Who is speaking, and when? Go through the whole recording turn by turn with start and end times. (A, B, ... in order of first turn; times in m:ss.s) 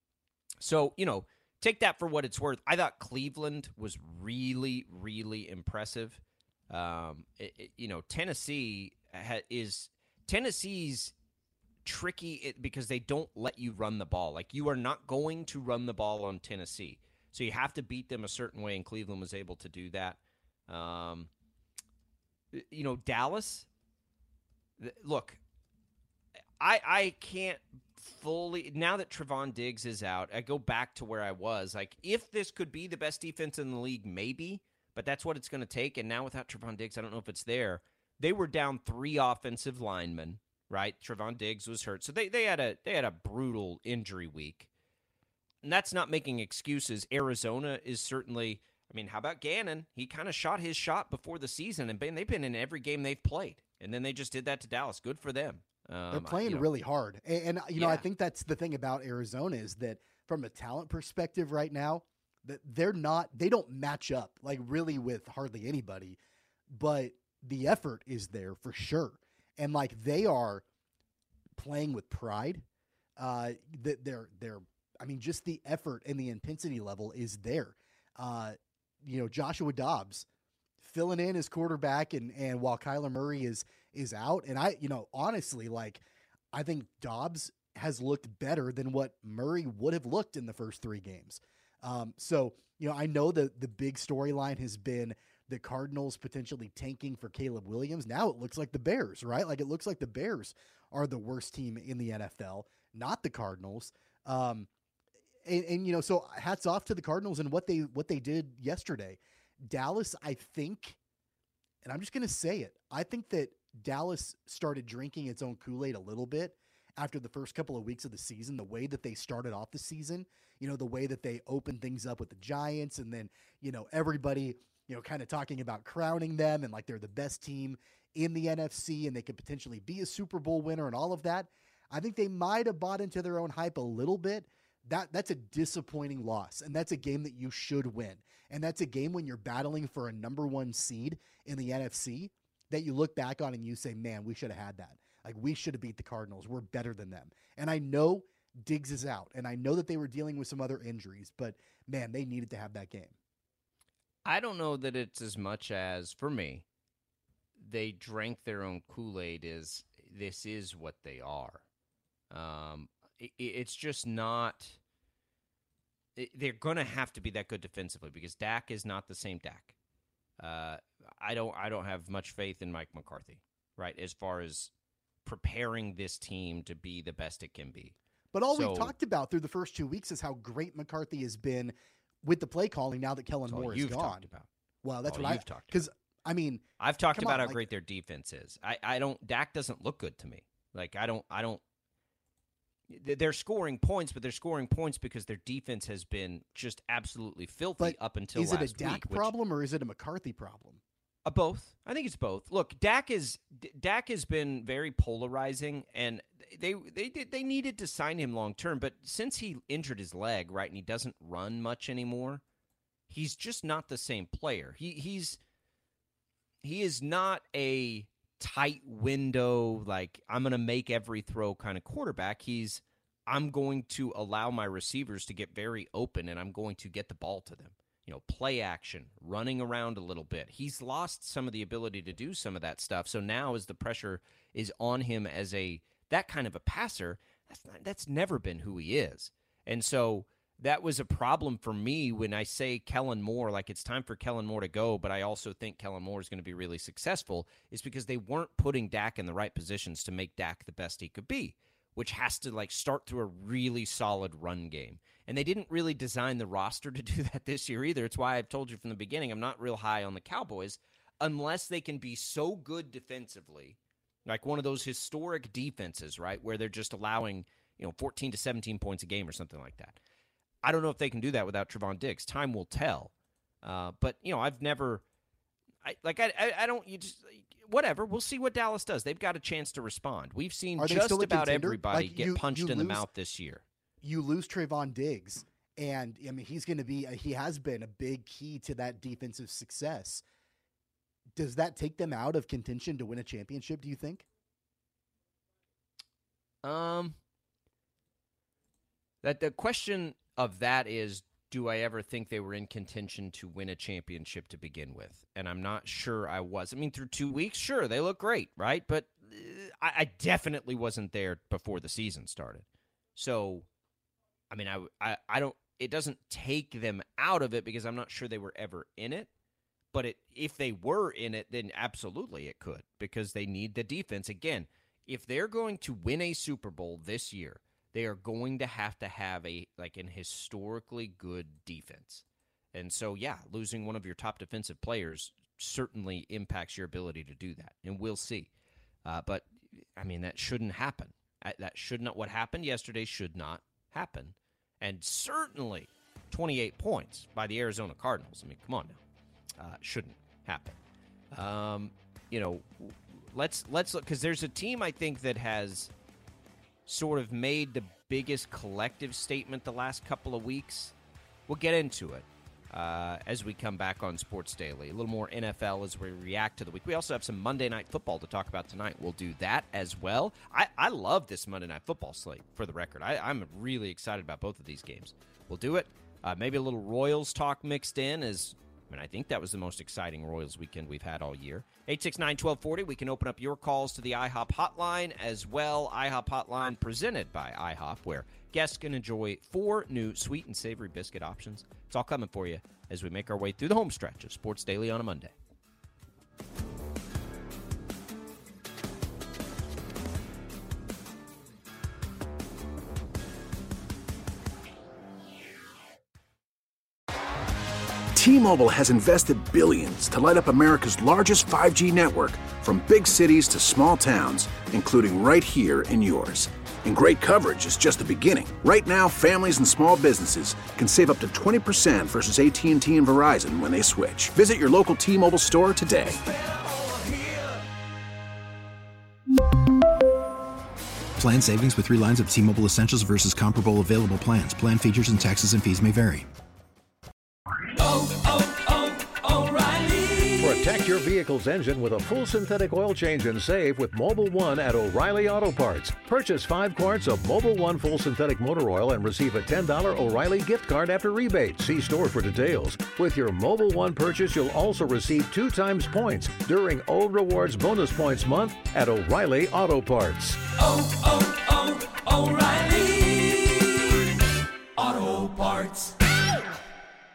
0:00.6-0:11.1 A
0:11.8-0:21.3 A
0:22.5-0:23.7 A
0:24.8-0:25.4 A
0:26.6-0:44.7 A
0:45.6-0:56.7 A
0:56.1-1:06.2 B
0:57.8-0:58.0 A
1:06.7-1:10.6 B
1:11.6-1:12.6 B
1:13.2-1:20.3 B
1:20.8-1:44.7 B
1:45.5-1:51.0 B
1:51.8-2:33.2 B
2:34.2-2:36.6 A
2:37.6-2:41.6 A
2:42.3-2:44.8 A
2:46.2-2:49.8 A
2:50.4-2:54.7 A
2:55.2-2:58.0 A
2:58.3-3:04.3 B
2:58.5-2:58.9 A
3:03.5-3:04.5 A
3:04.8-3:06.6 B
3:05.0-3:05.7 A
3:06.8-3:11.6 A
3:07.1-3:07.7 B
3:12.9-3:19.3 A
3:17.8-3:20.8 B
3:21.2-3:32.4 A
3:33.1-3:35.4 A
3:36.6-4:30.0 A
4:30.6-4:33.1 A
4:33.6-4:35.0 A
4:35.8-4:43.6 A
4:40.8-4:43.1 B
4:44.0-4:50.2 B
4:51.4-4:54.3 B
4:56.6-4:57.2 A
4:59.2-5:13.7 A
5:14.5-5:19.3 A
5:19.9-5:38.5 A
5:39.0-5:49.0 A
5:49.6-5:50.8 A
5:51.3-5:55.9 A
5:56.9-6:00.9 A
6:01.5-6:35.3 A
6:48.2-7:06.2 C
7:11.2-7:16.3 D
7:19.6-7:20.0 E
7:20.4-7:40.4 F
7:41.1-7:41.6 E
7:42.3-7:43.5 E
7:44.8-7:45.9 E